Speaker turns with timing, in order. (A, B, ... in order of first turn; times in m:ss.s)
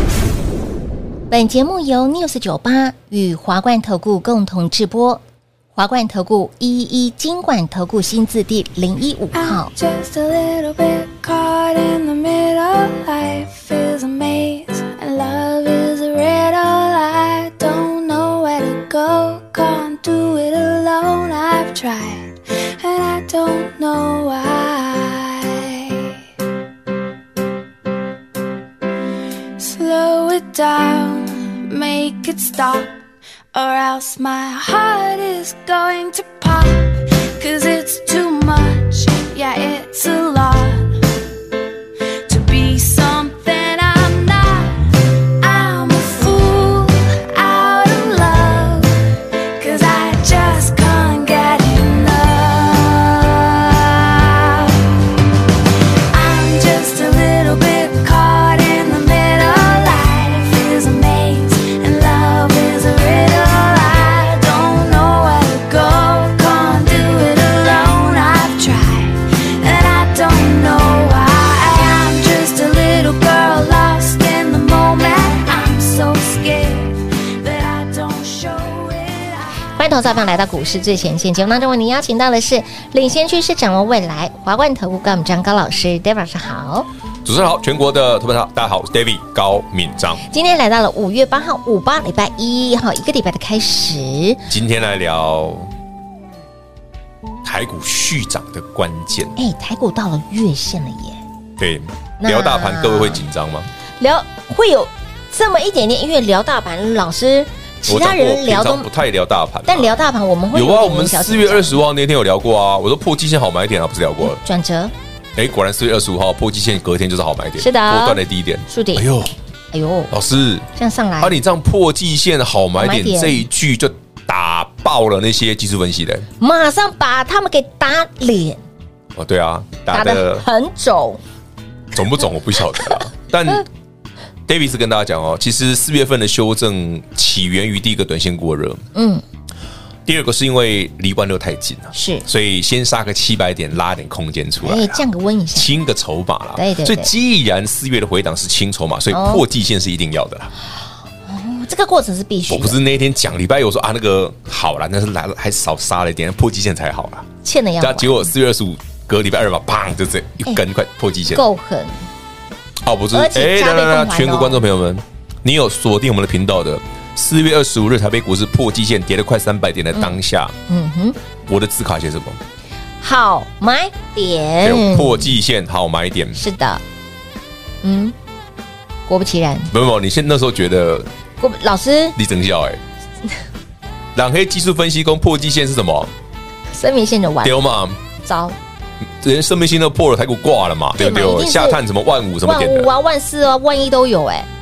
0:01.3-0:05.2 A
0:05.8-0:09.7 A
0:09.3-0:26.2 B
0:29.6-0:33.0 B
0:33.5-0:41.0 B
0:42.3-0:44.9 B
0:45.4-0:49.0 B
0:49.6-0:55.0 B
0:56.1-1:19.5 B
1:19.8-1:26.9 A
1:27.2-1:30.2 C
1:30.2-1:34.4 A
1:34.5-1:35.7 C
1:37.4-1:39.4 C
1:39.4-1:41.2 A
1:41.6-1:43.7 C
1:42.2-1:43.2 A
1:44.0-1:48.9 A
1:47.9-1:54.4 C
1:49.7-1:51.8 A
1:54.2-1:54.9 A
1:55.4-1:59.3 C
1:57.6-1:59.1 A
1:59.7-2:00.1 A
2:00.1-2:00.6 C
2:00.8-2:01.4 A
2:01.2-2:06.3 C
2:02.8-2:03.5 A
2:06.4-2:08.6 A
2:09.1-2:10.4 C
2:09.9-2:11.2 A
2:11.9-2:13.6 C
2:14.5-2:18.8 C
2:18.9-2:19.2 A
2:20.0-2:30.5 C
2:21.9-2:22.2 A
2:24.6-2:25.7 A
2:26.6-2:27.1 A
2:29.1-2:29.4 A
2:31.3-2:32.8 A
2:32.5-2:37.3 C
2:37.4-2:38.3 A
2:37.8-2:41.4 C
2:41.3-2:42.0 A
2:42.8-2:50.5 C
2:43.1-2:44.6 A
2:50.7-2:51.2 A
2:51.4-2:52.4 C
2:53.0-2:55.3 A
2:54.6-2:56.4 C
2:56.3-2:56.8 A
2:57.8-2:58.1 A
2:59.1-2:59.7 A
2:59.7-3:01.1 C
3:01.4-3:02.2 A
3:02.2-3:02.8 C
3:04.1-3:06.1 C
3:06.7-3:07.6 A
3:07.4-3:08.0 C
3:08.2-3:08.6 A
3:09.0-3:12.9 C
3:11.0-3:11.8 A
3:12.4-3:14.5 A